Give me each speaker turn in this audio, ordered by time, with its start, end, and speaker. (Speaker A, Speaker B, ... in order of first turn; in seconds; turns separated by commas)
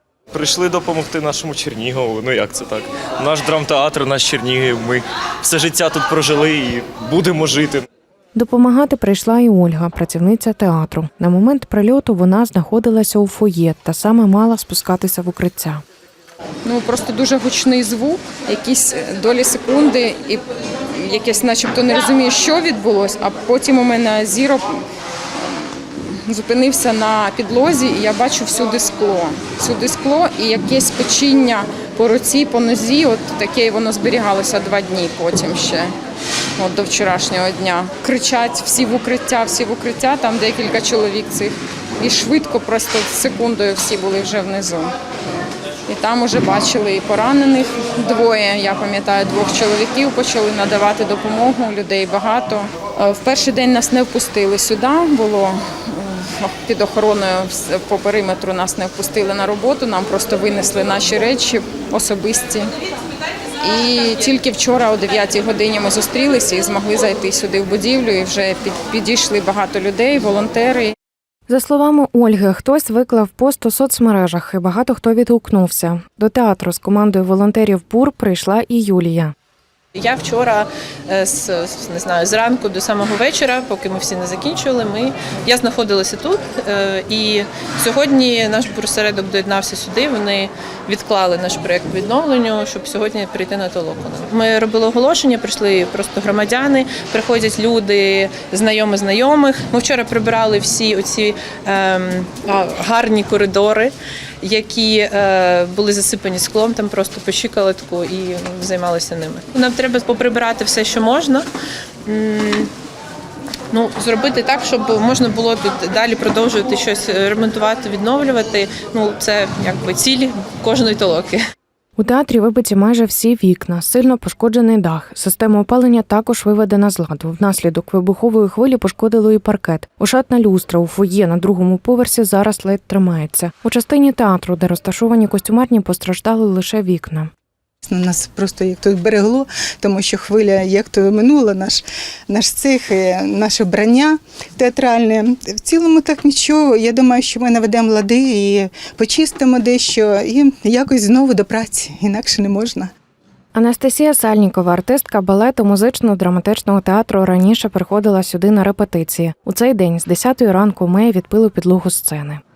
Speaker A: 0.3-7.9, Speaker B: 8.3-15.8, Speaker C: 16.6-20.4, Speaker C: 20.9-24.7, Speaker C: 25.4-35.9, Speaker C: 36.6-44.9, Speaker C: 45.9-62.7, Speaker C: 63.6-70.9, Speaker B: 71.5-79.3, Speaker D: 80.0-111.5, Speaker D: 112.1-112.7, Speaker D: 113.7-121.4, Speaker B: 122.0-137.3, Speaker E: 137.9-152.9, Speaker B: 153.6-162.4